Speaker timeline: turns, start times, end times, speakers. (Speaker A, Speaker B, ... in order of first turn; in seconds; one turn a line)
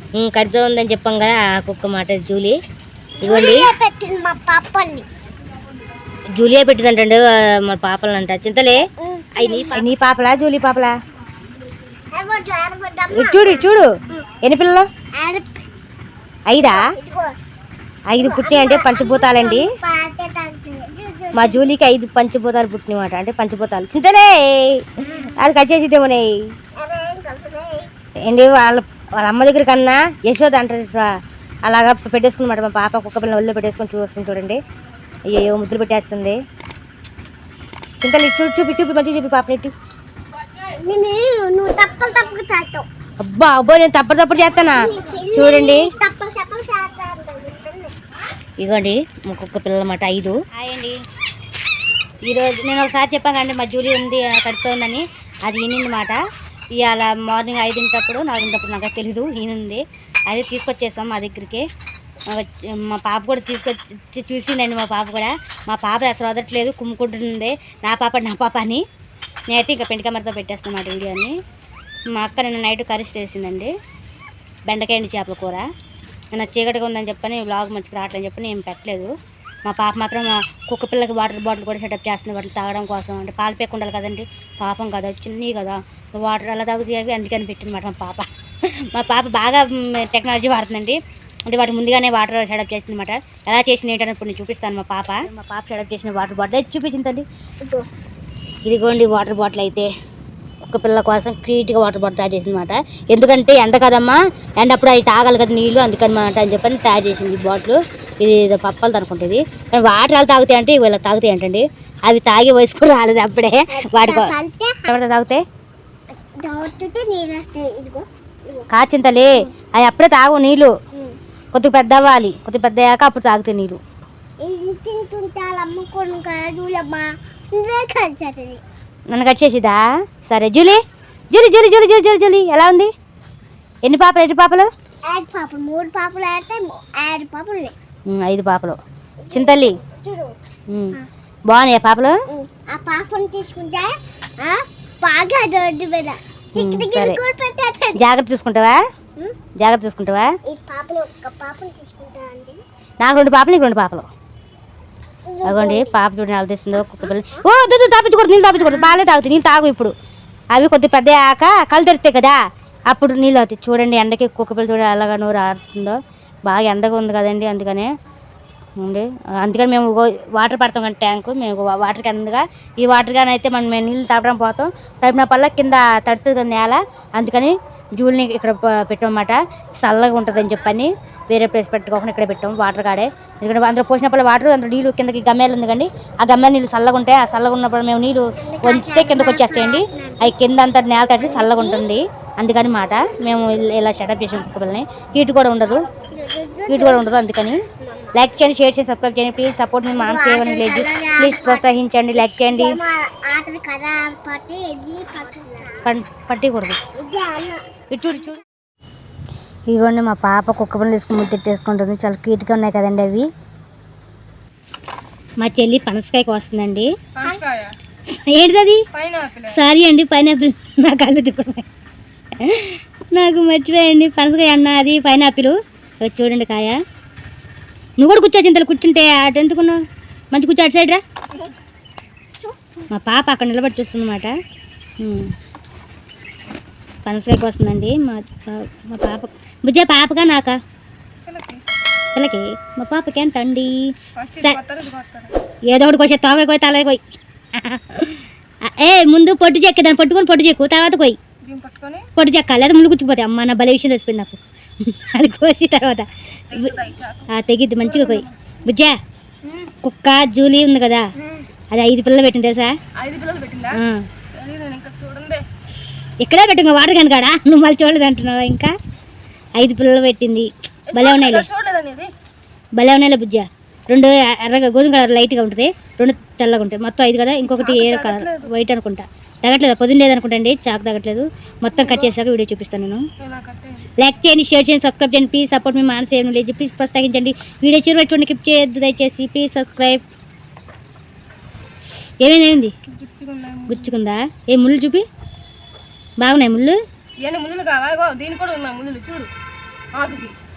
Speaker A: 0.2-2.5
Speaker B: 3.2-5.1
Speaker A: 3.2-3.7
Speaker A: 6.3-8.8
Speaker B: 9.0-9.8
Speaker A: 9.3-10.9
Speaker B: 12.1-14.2
Speaker A: 13.1-13.9
Speaker A: 14.4-14.9
Speaker B: 15.1-15.5
Speaker A: 16.5-16.9
Speaker B: 16.6-17.3
Speaker A: 18.1-19.7
Speaker B: 18.2-21.7
Speaker A: 21.3-26.4
Speaker B: 26.8-27.9
Speaker A: 28.3-31.1
Speaker A: 31.6-34.6
Speaker A: 35.3-36.4
Speaker A: 38.0-39.7
Speaker B: 40.7-42.9
Speaker A: 43.2-45.9
Speaker B: 44.5-47.9
Speaker A: 48.6-51.0
Speaker A: 52.2-56.2
Speaker A: 56.7-61.6
Speaker A: 62.3-68.8
Speaker A: 69.5-71.3
Speaker A: 72.1-73.7
Speaker A: 74.7-75.7
Speaker A: 76.3-79.1
Speaker A: 79.7-97.2
Speaker A: 98.7-99.9
Speaker A: 100.6-114.3
Speaker B: 113.7-114.9
Speaker A: 114.9-115.4
Speaker B: 116.4-118.7
Speaker A: 118.7-120.7
Speaker A: 121.5-123.8
Speaker B: 124.4-128.6
Speaker A: 129.1-130.8
Speaker A: 131.3-132.9
Speaker A: 133.8-134.7
Speaker B: 135.1-137.7
Speaker A: 138.1-138.8
Speaker B: 139.2-140.3
Speaker A: 139.3-139.8
Speaker A: 140.7-141.0
Speaker A: 141.5-142.2
Speaker B: 142.3-148.0
Speaker A: 146.6-147.2
Speaker A: 147.9-148.8
Speaker A: 149.6-150.3
Speaker B: 150.4-152.6
Speaker A: 153.0-154.1
Speaker B: 155.3-155.9
Speaker A: 155.4-159.9
Speaker B: 157.0-157.4
Speaker B: 158.6-159.0
Speaker A: 160.5-162.4
Speaker A: 162.9-167.9
Speaker A: 168.8-195.9
Speaker B: 188.4-190.3
Speaker B: 191.1-191.9
Speaker B: 196.0-197.0
Speaker A: 196.7-197.6
Speaker B: 197.8-198.1
Speaker A: 198.1-202.8
Speaker B: 200.0-201.7
Speaker B: 202.3-205.9
Speaker A: 205.8-206.8
Speaker B: 206.9-207.6
Speaker A: 207.9-208.4
Speaker A: 209.7-213.3
Speaker A: 215.4-216.9
Speaker C: 217.1-217.7
Speaker A: 218.1-218.8
Speaker C: 218.9-219.6
Speaker A: 219.5-221.6
Speaker A: 222.4-226.8
Speaker A: 228.0-229.8
Speaker A: 230.3-231.0
Speaker A: 232.9-234.3
Speaker A: 235.0-235.3
Speaker A: 237.1-240.6
Speaker C: 241.2-241.6
Speaker A: 242.2-243.8
Speaker C: 244.2-245.3
Speaker A: 245.7-251.2
Speaker C: 251.4-252.1
Speaker A: 252.2-256.8
Speaker C: 256.5-257.3
Speaker A: 257.3-258.9
Speaker C: 257.8-258.4
Speaker C: 259.4-259.7
Speaker A: 259.8-261.0
Speaker C: 261.2-261.5
Speaker A: 261.7-262.7
Speaker C: 263.0-263.8
Speaker A: 263.7-264.0
Speaker C: 264.3-265.4
Speaker A: 266.2-268.7
Speaker A: 269.6-271.5
Speaker C: 270.9-272.1
Speaker A: 272.8-283.0
Speaker C: 277.4-278.5
Speaker C: 281.7-282.1
Speaker C: 283.2-283.9
Speaker A: 284.0-290.0
Speaker A: 292.2-292.7
Speaker C: 292.9-293.9
Speaker A: 293.7-295.0
Speaker A: 296.2-296.8
Speaker C: 297.2-299.3
Speaker C: 299.9-300.4